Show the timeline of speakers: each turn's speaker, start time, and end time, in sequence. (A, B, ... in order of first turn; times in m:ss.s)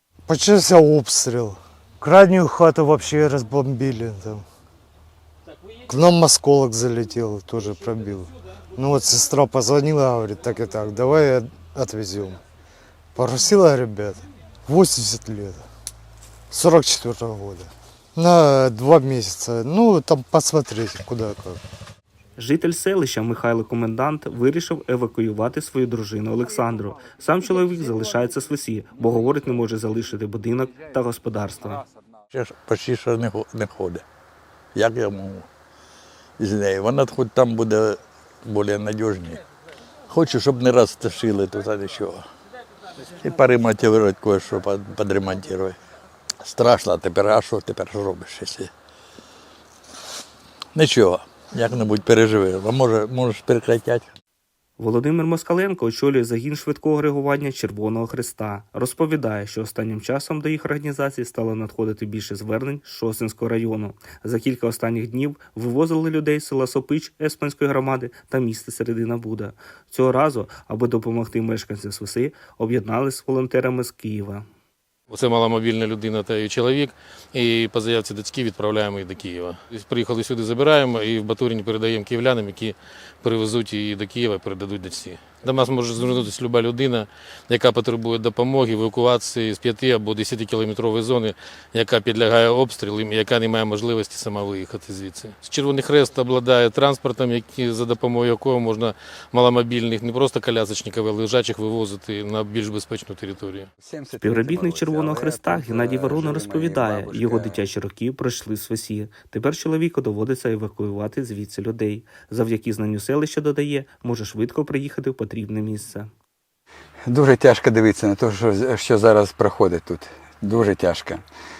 0:00.3-0:04.4 A
0:05.9-0:12.4 A
0:13.1-0:15.6 A
0:16.5-0:21.6 A
0:22.4-0:31.8 B
0:32.3-0:34.0 C
0:34.7-0:35.5 C
0:36.4-0:39.4 C
0:40.1-0:42.2 C
0:43.0-0:45.8 C
0:46.4-0:48.7 C
0:50.7-0:54.1 C
0:54.8-1:14.4 B
1:15.1-1:43.7 D
1:43.8-1:47.6 E
1:44.2-1:56.1 B
1:57.1-2:01.2 E